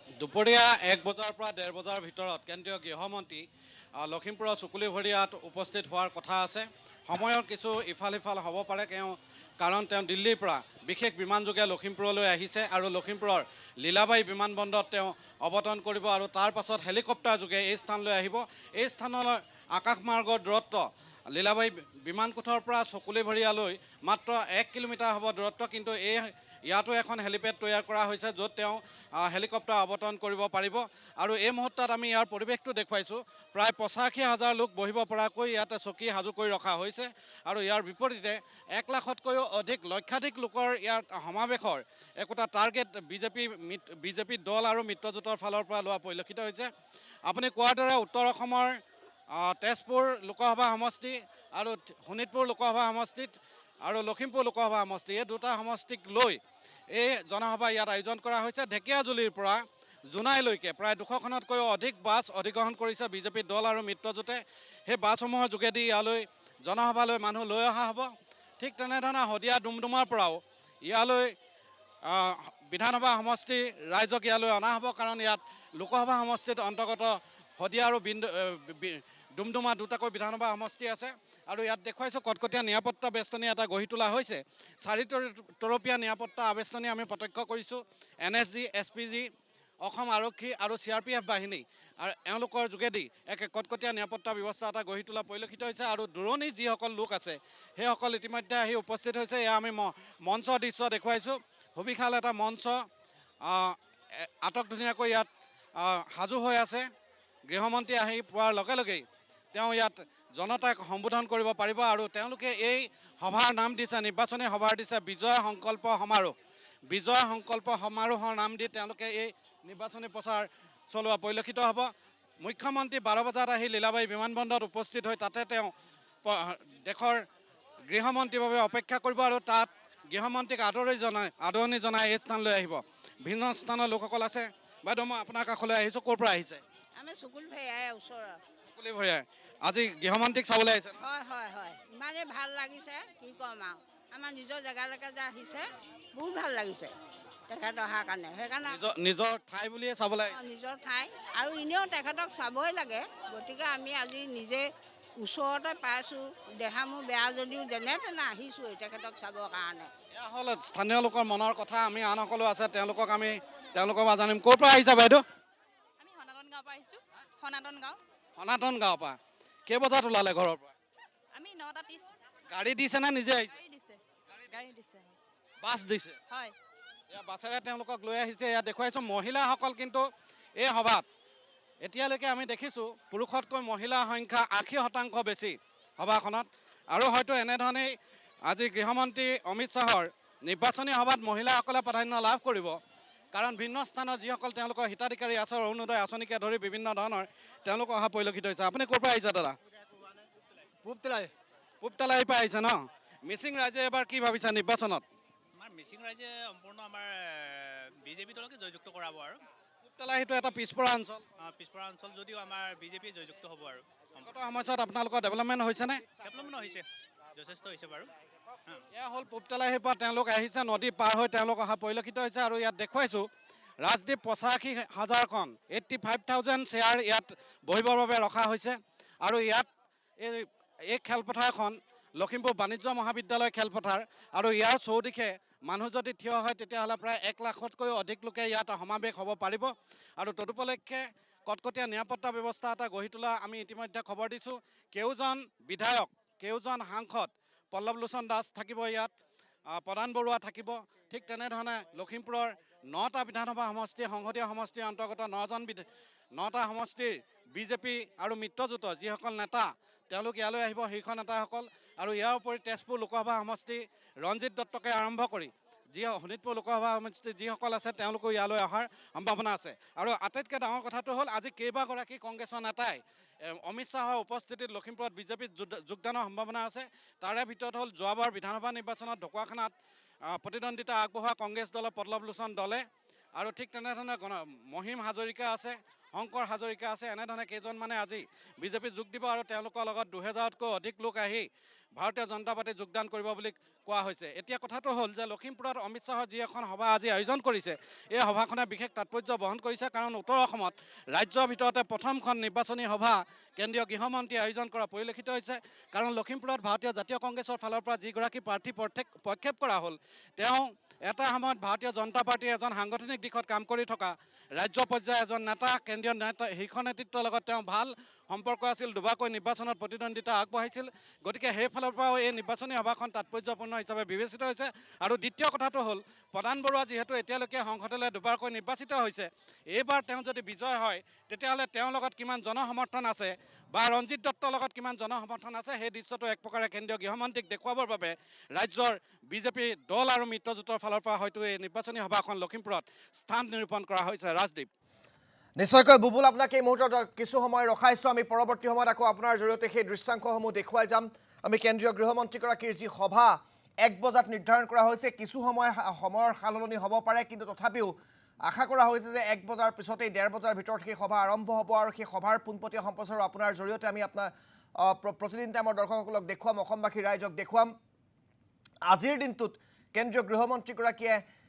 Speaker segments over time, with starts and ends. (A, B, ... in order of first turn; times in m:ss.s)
0:00.2-0:46.7 A
0:47.3-0:48.8 A
0:49.3-0:56.4 A
0:56.9-1:11.4 A
1:12.0-1:29.3 A
1:29.8-1:42.8 A
1:43.4-1:46.9 A
1:47.5-1:56.4 A
1:56.9-2:05.7 A
2:06.2-2:07.2 A
2:07.9-2:16.6 A
2:17.0-2:18.4 B
2:18.8-2:21.0 A
2:21.0-2:26.9 B
2:27.5-2:28.9 B
2:28.6-2:30.4 A
2:30.3-2:39.9 B
2:40.1-2:45.2 A
2:46.0-2:48.0 C
2:48.4-2:50.7 A
2:51.3-2:52.1 C
2:52.5-2:53.5 A
2:53.5-2:55.2 C
2:55.6-2:56.2 A
2:57.1-3:00.0 A
3:00.6-3:01.1 A
3:01.8-3:08.0 A
3:08.5-3:12.8 A
3:13.3-3:19.6 A
3:20.9-3:21.3 A
3:21.8-3:25.0 A
3:25.6-3:29.4 D
3:30.0-3:31.3 A
3:31.4-3:34.3 D
3:34.2-3:36.1 A
3:36.2-3:38.1 D
3:38.9-3:43.2 A
3:43.8-3:49.7 A
3:50.2-4:09.1 A
4:09.7-4:39.7 A
4:40.3-4:42.8 A
4:43.4-5:44.7 A
5:45.6-5:57.9 E
5:58.5-6:07.7 E
6:08.9-6:11.2 E